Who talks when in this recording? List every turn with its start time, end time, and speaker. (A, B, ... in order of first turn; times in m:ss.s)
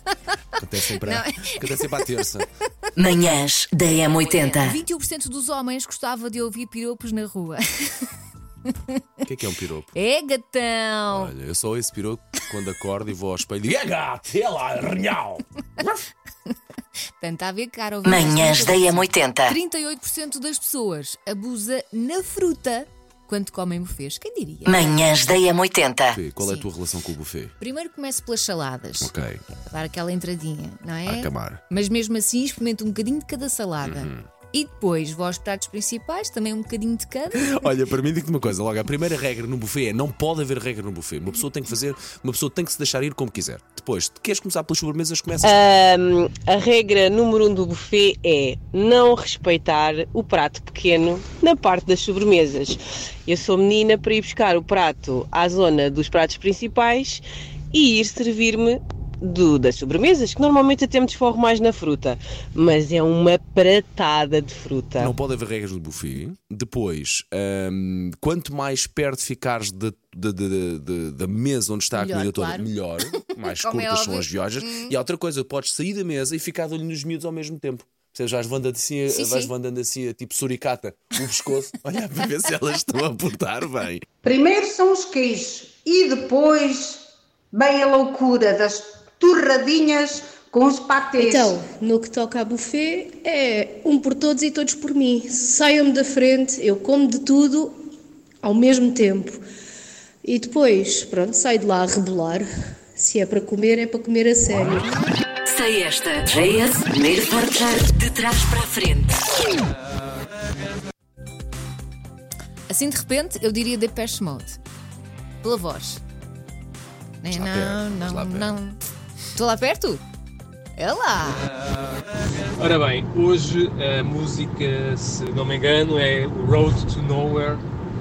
0:00.6-0:02.4 A
0:00.9-0:02.2 B
0:03.0-0:04.8 C
0:04.2-0:08.0 B
0:09.2-0:09.9 A
0:09.9-0:11.3 B
0:11.1-0:15.4 A
0:17.2-0:24.9 B
0:18.0-0:19.6 C
0:24.7-0:26.2 C
0:26.1-0:27.5 A
0:26.3-0:26.7 B
0:27.6-0:37.5 B
0:29.0-0:29.4 A
0:31.0-0:31.6 A
0:33.8-0:34.2 A
0:37.3-0:45.6 A
0:45.4-1:05.1 D
1:05.0-1:24.0 A
1:11.9-1:14.9 B
1:19.1-1:19.5 B
1:24.2-1:31.6 E
1:31.3-1:37.7 F
1:38.4-1:39.4 F
1:40.2-1:42.4 F
1:43.0-1:44.9 F
1:45.5-1:49.2 C
1:52.7-1:54.6 B
1:55.4-1:56.0 B
1:57.2-1:58.8 B
1:57.3-1:58.5 A
1:59.4-2:00.0 B
2:00.8-2:01.4 B
2:02.6-2:07.6 G